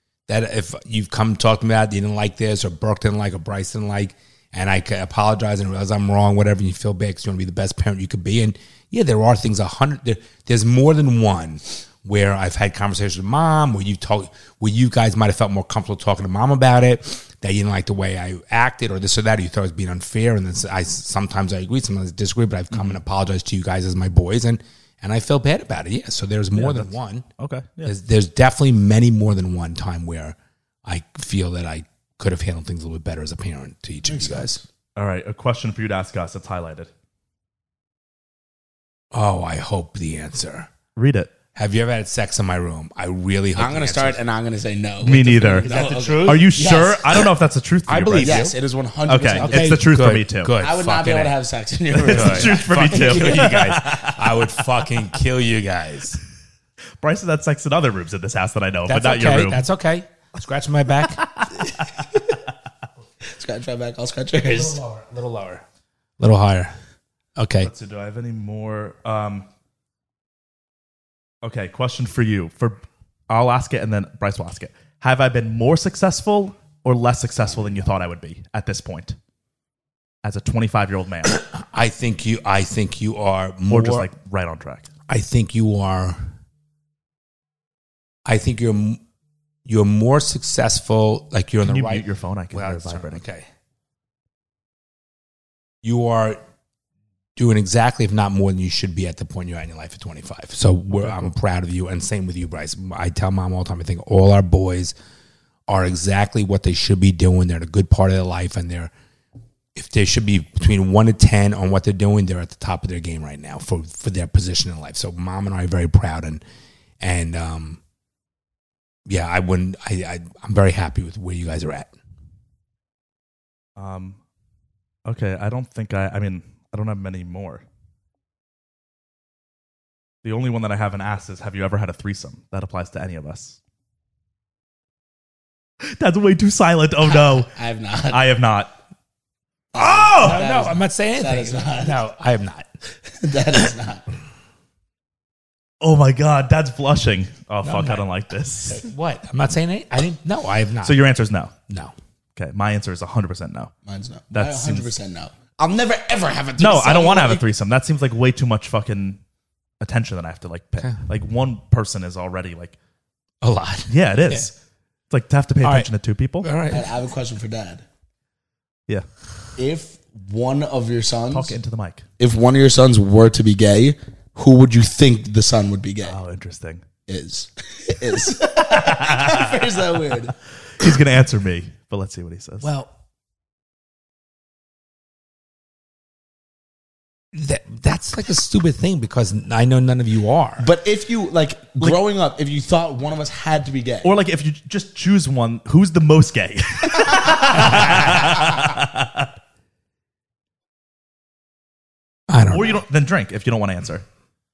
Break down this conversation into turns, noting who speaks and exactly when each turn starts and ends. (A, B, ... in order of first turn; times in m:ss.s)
0:00.3-0:27.2 A
0:22.7-0:23.0 B
0:26.5-0:27.9 B
0:27.8-0:34.6 A
0:34.0-0:34.6 C
0:35.0-0:36.9 B
0:39.1-0:40.7 A
0:40.9-0:41.3 B
0:41.5-0:44.2 A
0:43.6-0:47.3 C
0:45.0-0:48.4 B
0:45.6-0:46.5 A
0:47.9-0:48.5 A
0:48.2-0:49.8 C
0:49.1-0:50.5 B
0:49.4-0:51.3 A
0:50.6-0:53.7 C
0:51.9-0:54.4 B
0:52.0-0:56.2 A
0:57.0-0:59.6 B
0:58.9-1:01.2 A
1:01.6-1:02.4 C
1:03.2-1:04.8 C
1:04.3-1:05.6 A
1:06.2-1:06.7 A
1:07.4-1:07.7 A
1:07.6-1:09.5 B
1:11.4-1:19.2 B
1:20.2-1:21.4 B
1:21.2-1:24.1 A
1:23.7-1:24.9 B
1:25.1-1:26.2 A
1:28.2-1:29.0 A
1:29.6-1:33.5 A
1:31.6-1:33.2 B
1:35.8-1:36.4 A
1:37.4-1:44.9 A
1:41.0-1:41.3 B
1:45.7-1:48.9 A
1:49.7-1:56.4 A
1:57.0-1:57.8 A
1:59.0-2:01.9 A
2:03.8-2:04.2 B
2:05.0-2:07.6 B
2:10.2-2:13.6 B
2:15.8-2:17.5 B
2:17.0-2:18.3 C
2:18.1-2:18.7 B
2:19.7-2:22.0 C
2:19.7-2:20.4 B
2:20.2-2:22.7 A
2:23.1-2:24.0 C
2:25.8-2:28.9 B
2:27.6-2:28.0 A
2:28.6-2:31.0 A
2:30.8-2:31.5 B
2:32.4-2:33.7 B
2:33.8-2:37.4 C
2:34.3-2:34.9 B
2:36.6-2:39.2 B
2:39.8-2:42.8 B
2:43.4-2:44.5 A
2:43.9-2:44.5 B
2:45.1-2:46.5 B
2:45.6-2:45.9 A
2:46.4-2:46.9 A
2:46.7-2:47.8 C
2:49.6-2:51.6 C
2:51.3-2:52.0 B
2:52.2-2:56.2 C
2:56.0-2:56.8 B
2:57.1-3:00.4 C
2:58.4-2:59.6 B
3:00.8-3:02.7 B
3:02.6-3:02.9 A
3:07.3-3:10.6 A
3:10.6-3:14.1 C
3:14.0-3:19.3 B
3:17.5-3:18.6 A
3:22.3-3:22.8 A
3:22.5-3:24.0 B